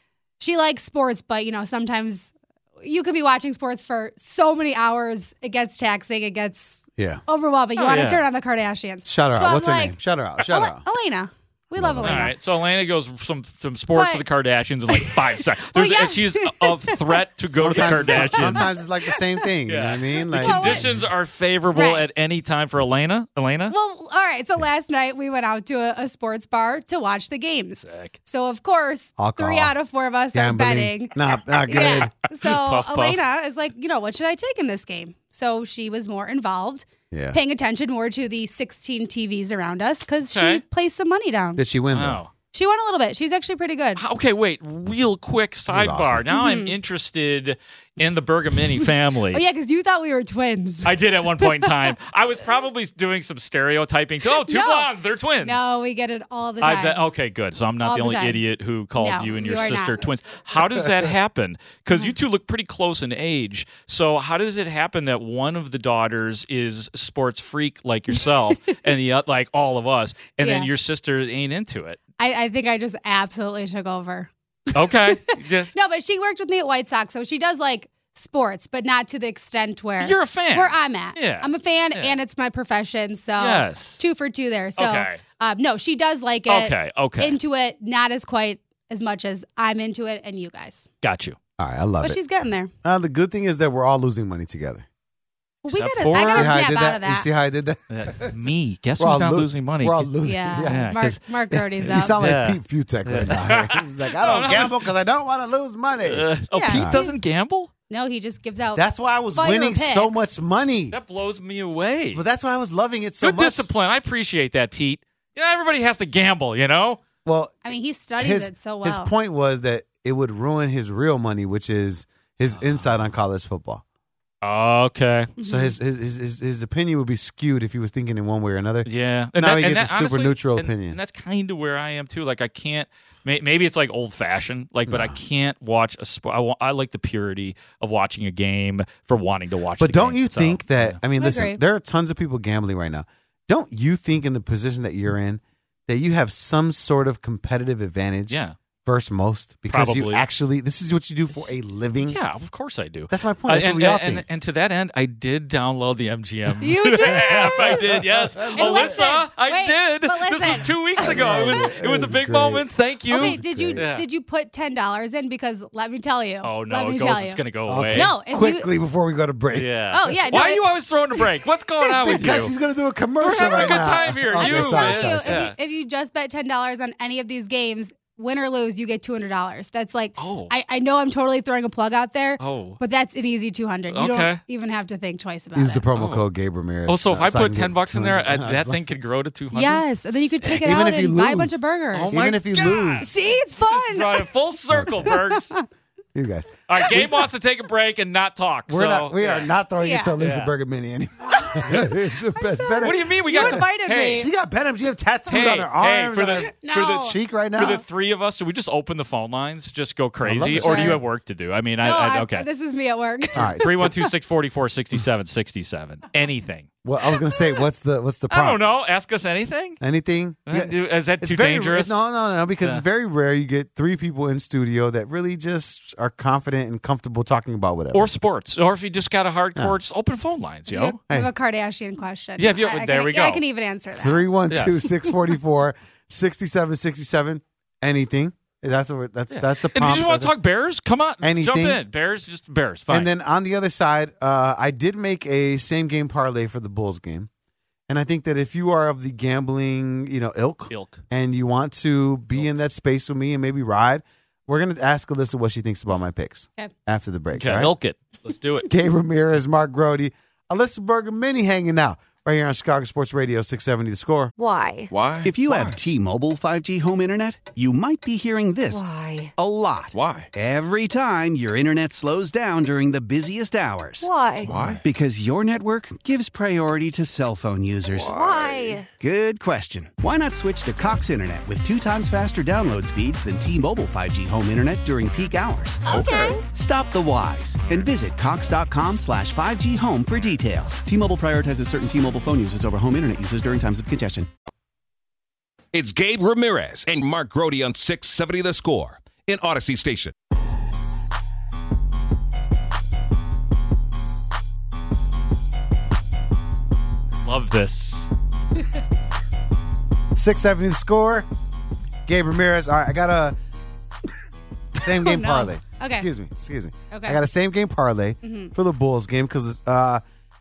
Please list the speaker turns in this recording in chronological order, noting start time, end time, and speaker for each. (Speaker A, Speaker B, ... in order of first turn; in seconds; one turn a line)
Speaker A: 0.4-12.3
Speaker B: 7.8-8.2
Speaker C: 9.1-10.8
Speaker C: 11.8-12.3
Speaker B: 12.0-18.7
Speaker A: 13.9-14.2
Speaker A: 14.9-19.2
Speaker C: 17.5-21.0
Speaker B: 19.7-23.8
Speaker A: 20.3-20.9
Speaker A: 21.7-22.1
Speaker A: 23.7-31.2
Speaker B: 27.8-28.1
Speaker C: 29.2-29.7
Speaker C: 30.3-32.1
Speaker A: 31.7-41.6
Speaker B: 31.7-33.2
Speaker C: 37.1-37.4
Speaker B: 40.3-40.6
Speaker C: 41.6-42.2
Speaker B: 41.9-42.3
Speaker A: 42.5-44.0
Speaker B: 44.0-49.4
Speaker C: 45.7-46.2
Speaker A: 46.3-46.8
Speaker A: 48.8-51.9
Speaker B: 50.8-55.6
Speaker A: 54.3-54.9
Speaker A: 55.4-57.1
Speaker B: 56.6-72.0
Speaker A: 57.8-58.4
Speaker A: 59.0-60.0
Speaker A: 70.4-70.7
Speaker A: 72.2-90.9
Speaker B: 74.7-75.7
Speaker B: 80.0-82.2
Speaker B: 83.4-84.0
Speaker B: 84.8-85.2
Speaker B: 86.5-87.4
Speaker B: 91.0-91.4
Speaker C: 91.6-92.2
Speaker A: 92.0-92.7
Speaker C: 92.8-94.9
Speaker A: 95.6-97.3
Speaker B: 95.7-96.6
Speaker C: 96.1-98.4
Speaker B: 97.9-101.2
Speaker C: 99.0-100.9
Speaker A: 100.2-102.2
Speaker C: 101.5-107.0
Speaker B: 101.8-104.8
Speaker B: 106.0-107.7
Speaker A: 106.5-107.2
Speaker A: 107.9-110.3
Speaker C: 108.8-111.0
Speaker B: 110.9-112.2
Speaker C: 112.1-113.7
Speaker B: 113.2-117.0
Speaker C: 117.2-117.6
Speaker A: 117.7-119.1
Speaker C: 118.2-123.8
Speaker B: 122.5-123.0
Speaker B: 124.4-125.3
Speaker A: 125.4-125.8
Speaker C: 125.4-131.0
Speaker B: 128.9-141.0
Speaker C: 134.9-135.2
Speaker C: 139.8-152.2
Speaker A: 141.2-141.6
Speaker B: 148.3-148.6
Speaker B: 149.7-150.3
Speaker B: 152.0-164.1
Speaker C: 153.1-154.2
Speaker A: 156.6-157.8
Speaker C: 157.1-159.0
Speaker A: 158.5-161.6
Speaker C: 161.0-163.8
Speaker A: 163.1-167.4
Speaker B: 166.4-168.1
Speaker C: 167.7-170.5
Speaker A: 167.9-168.7
Speaker B: 169.6-172.5
Speaker A: 169.9-170.7
Speaker C: 172.0-175.5
Speaker B: 173.2-175.6
Speaker A: 173.4-185.8
Speaker B: 180.2-180.5
Speaker B: 182.4-182.8
Speaker B: 183.9-184.4
Speaker C: 185.6-188.8
Speaker B: 185.9-186.3
Speaker B: 186.9-190.7
Speaker A: 189.5-194.3
Speaker C: 190.4-193.1
Speaker B: 191.9-195.5
Speaker C: 194.7-195.1
Speaker A: 195.0-195.7
Speaker C: 196.1-197.1
Speaker B: 196.7-199.5
Speaker C: 198.7-207.8
Speaker A: 199.8-200.2
Speaker B: 200.2-200.5
Speaker A: 201.3-204.3
Speaker B: 202.8-204.3
Speaker B: 205.3-212.5
Speaker A: 206.4-207.2
Speaker C: 210.2-211.0
Speaker A: 210.6-211.0
Speaker A: 211.8-214.1
Speaker C: 213.3-213.9
Speaker B: 213.6-216.7
Speaker C: 216.8-218.6
Speaker B: 218.3-219.8
Speaker C: 219.8-228.1
Speaker B: 220.5-222.0
Speaker B: 227.9-231.0
Speaker A: 230.7-234.3
Speaker B: 232.4-233.4
Speaker C: 233.9-240.3
Speaker B: 234.5-234.8
Speaker B: 239.3-243.1
Speaker C: 241.2-241.8
Speaker C: 242.9-247.3
Speaker C: 247.9-257.7
Speaker B: 250.7-251.0
Speaker B: 257.3-258.7
Speaker C: 258.6-264.3
Speaker D: 264.4-264.9
Speaker E: 264.9-265.8
Speaker F: 265.2-268.8
Speaker D: 268.7-269.3
Speaker F: 269.4-274.1
Speaker E: 269.9-270.3
Speaker D: 274.0-274.6
Speaker E: 274.4-274.8
Speaker F: 274.8-278.2
Speaker E: 277.9-278.8
Speaker D: 278.0-278.9
Speaker F: 278.9-294.3
Speaker D: 285.9-286.4
Speaker E: 295.7-300.1
Speaker B: 307.2-308.1
Speaker C: 310.1-311.3
Speaker C: 312.1-313.4
Speaker C: 314.8-320.0
Speaker A: 314.8-316.1
Speaker A: 316.9-317.2
Speaker A: 318.2-318.5